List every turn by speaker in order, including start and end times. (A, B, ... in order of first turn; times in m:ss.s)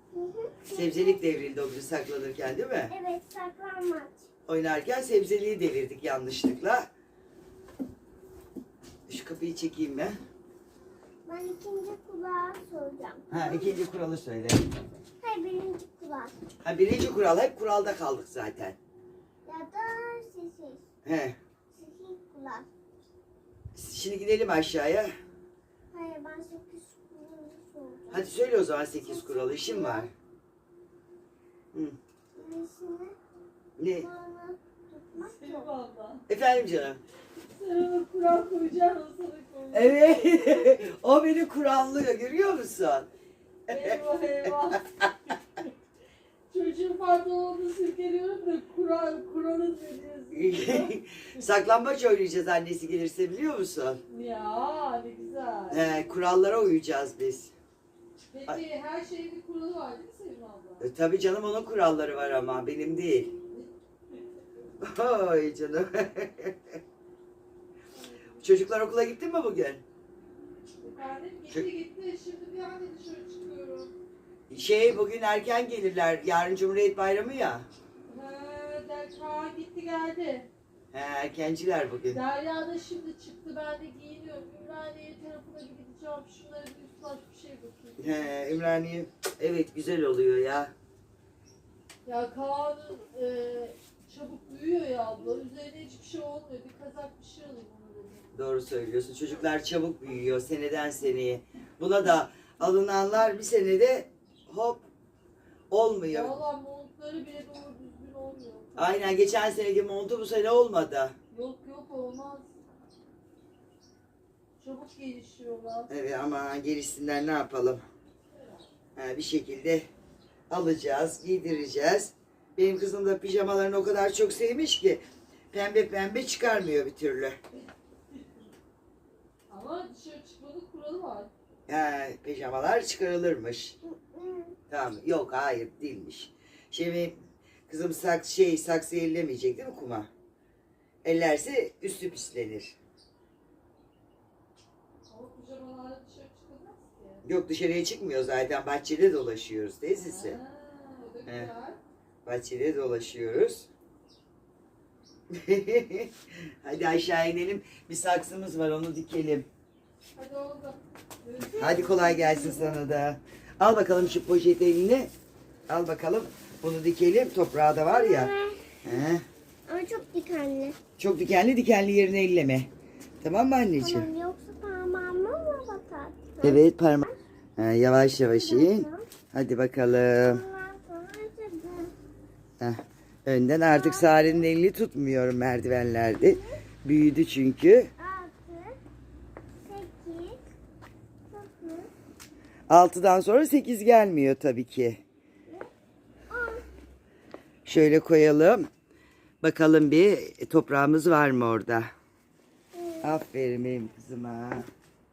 0:00.1-0:01.2 A
0:00.7-0:02.9 B
0:02.9-0:04.3 A
0:04.5-0:06.9 B
0:09.1-0:10.2 B
0:11.3-0:13.8 A
0:13.3-0:14.8 B
0:15.2-0:16.4 A
0:16.6-0:18.8 B
0:19.4-0:20.9 A
0:21.0-0:21.4 B
0:21.7-0:22.7 A
0:23.8-0:25.1 B
0:25.9-0:28.4 A
0:28.1-0:30.1 B
0:29.0-0:30.1 A
0:32.4-0:33.2 A
0:33.8-0:34.1 B
0:33.9-0:35.7 A
0:35.2-0:36.2 C
0:36.3-0:37.0 B
0:37.5-0:40.7 C
0:39.7-0:43.1 B
0:43.7-0:45.1 B
0:43.7-0:45.7 C
0:46.5-0:51.4 C
0:50.3-0:54.0 B
0:54.1-0:56.0 C
0:55.7-0:57.5 B
0:58.3-1:00.9 C
1:00.8-1:03.4 B
1:03.5-1:04.2 C
1:04.8-1:06.8 B
1:08.0-1:08.4 C
1:08.4-1:09.8 B
1:10.8-1:13.9 C
1:14.5-1:17.7 B
1:18.1-1:20.5 C
1:20.9-1:22.2 B
1:22.1-1:28.4 C
1:28.0-1:30.7 B
1:32.1-1:38.3 C
1:38.3-1:44.9 B
1:45.7-1:46.4 B
1:46.1-1:49.3 C
1:48.8-1:51.2 B
1:51.3-1:52.5 C
1:54.6-1:55.9 C
1:55.9-1:57.8 B
1:58.3-1:58.7 C
1:59.0-1:59.9 B
2:00.5-2:07.4 B
2:09.5-2:11.3 C
2:11.7-2:13.8 B
2:13.8-2:14.6 A
2:14.7-2:20.1 B
2:21.0-2:22.8 B
2:25.1-2:27.2 C
2:27.2-2:30.4 B
2:30.0-2:31.8 C
2:31.3-2:31.5 B
2:32.2-2:33.7 B
2:35.3-2:39.5 B
2:40.2-2:42.6 C
2:41.6-2:45.1 B
2:41.8-2:42.8 A
2:45.7-2:48.3 B
2:47.9-2:48.6 A
2:48.8-2:49.2 B
2:49.7-2:50.8 A
2:51.0-2:52.7 B
2:53.2-2:54.1 B
2:53.8-2:57.2 A
2:56.4-3:00.4 B
2:58.3-2:59.1 A
3:00.2-3:01.9 A
3:02.6-3:07.9 B
3:03.7-3:04.5 A
3:06.2-3:06.6 A
3:08.0-3:08.8 A
3:09.6-3:10.4 A
3:11.3-3:11.9 A
3:12.7-3:15.0 B
3:16.3-3:16.6 A
3:17.6-3:18.7 B
3:19.4-3:21.9 B
3:22.7-3:23.1 A
3:23.0-3:24.7 B